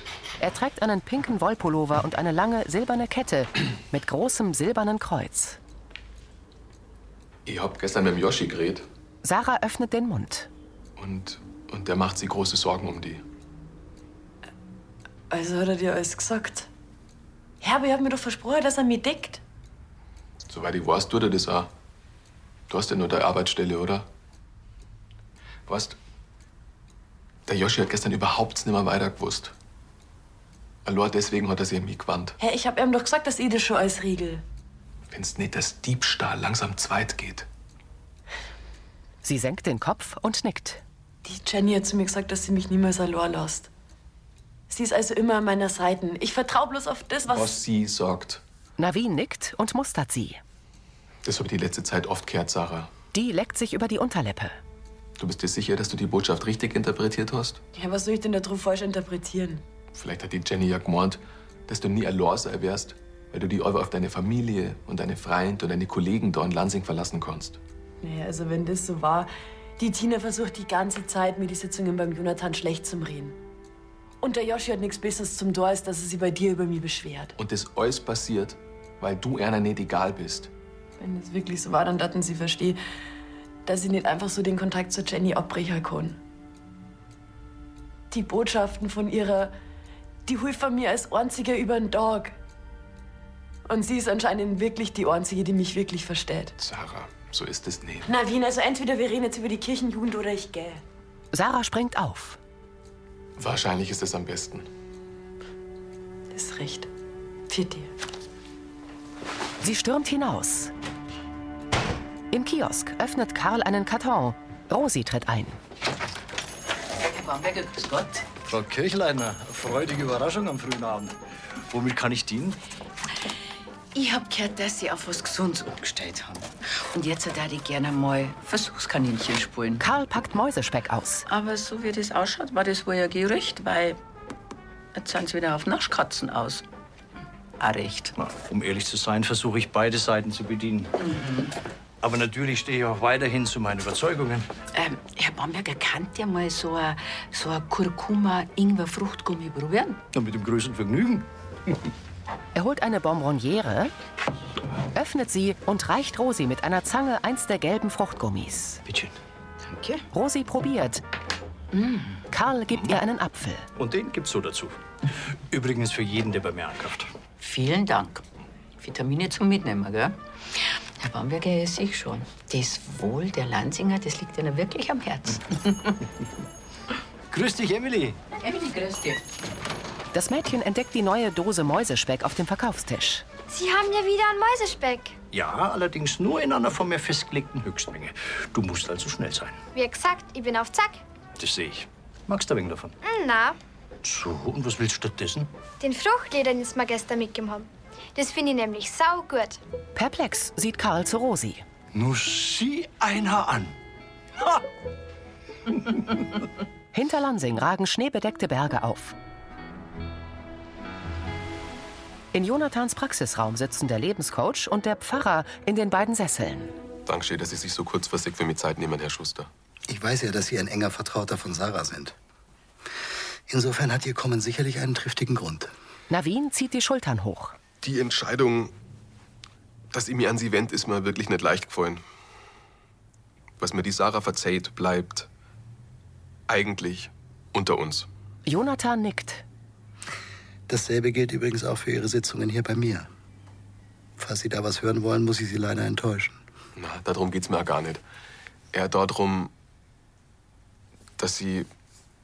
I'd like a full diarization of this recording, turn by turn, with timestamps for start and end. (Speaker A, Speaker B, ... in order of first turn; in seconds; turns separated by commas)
Speaker A: 0.4-5.6, Speaker B: 7.5-8.8, Speaker A: 9.2-10.5, Speaker B: 11.0-13.2, Speaker C: 15.3-16.7, Speaker C: 17.6-19.4, Speaker B: 20.5-21.7, Speaker B: 22.7-24.1, Speaker B: 25.7-26.0, Speaker B: 27.5-29.5, Speaker B: 30.8-32.3, Speaker C: 32.4-34.4, Speaker B: 35.1-37.5, Speaker A: 39.2-40.8, Speaker C: 41.2-43.7, Speaker C: 44.7-47.6, Speaker B: 47.3-48.4, Speaker A: 48.8-50.4, Speaker B: 51.2-52.9, Speaker A: 53.1-54.5, Speaker B: 55.2-57.6, Speaker C: 57.7-59.6, Speaker B: 59.9-67.6, Speaker C: 68.0-73.3, Speaker C: 74.2-77.3, Speaker B: 77.4-80.5, Speaker C: 81.0-82.8, Speaker C: 83.7-86.2, Speaker C: 88.1-89.5, Speaker C: 90.2-92.3, Speaker C: 93.7-96.5, Speaker B: 96.6-98.1, Speaker C: 98.1-100.8, Speaker A: 101.3-102.4, Speaker B: 103.4-104.7, Speaker C: 106.3-106.9, Speaker C: 107.5-107.9, Speaker A: 109.6-110.7, Speaker A: 112.3-115.6, Speaker D: 117.0-118.2, Speaker E: 118.5-121.2, Speaker E: 121.7-122.6, Speaker D: 123.9-129.8, Speaker A: 129.8-131.2, Speaker D: 131.3-134.0, Speaker D: 134.9-136.6, Speaker D: 137.6-138.1, Speaker E: 138.2-140.9, Speaker D: 141.0-141.5, Speaker E: 142.0-144.5, Speaker D: 144.7-150.0, Speaker E: 150.1-151.2, Speaker A: 152.5-153.9, Speaker A: 154.9-158.8, Speaker E: 158.8-159.1, Speaker D: 159.7-160.0, Speaker A: 160.1-161.0, Speaker D: 161.7-162.1, Speaker A: 162.3-163.7, Speaker E: 163.8-164.8, Speaker E: 165.5-167.1, Speaker D: 167.4-168.2, Speaker D: 168.8-175.9, Speaker E: 177.3-178.2, Speaker D: 178.4-179.2, Speaker A: 180.1-183.2, Speaker F: 183.5-185.1, Speaker E: 185.3-189.6, Speaker F: 189.7-191.0, Speaker E: 191.4-192.9, Speaker F: 193.0-193.6, Speaker E: 194.0-195.5, Speaker F: 195.8-199.6, Speaker A: 199.9-201.6, Speaker E: 201.9-203.7, Speaker A: 206.9-209.2, Speaker A: 212.3-216.7, Speaker B: 217.1-219.5, Speaker G: 219.9-222.1, Speaker G: 223.5-225.7, Speaker A: 226.1-227.6, Speaker B: 227.8-228.7, Speaker B: 229.9-232.0, Speaker B: 233.6-235.3, Speaker B: 236.5-238.1, Speaker A: 238.4-239.4, Speaker G: 240.7-243.1, Speaker G: 244.2-246.4, Speaker B: 246.8-248.0, Speaker B: 248.7-249.5, Speaker B: 251.2-251.7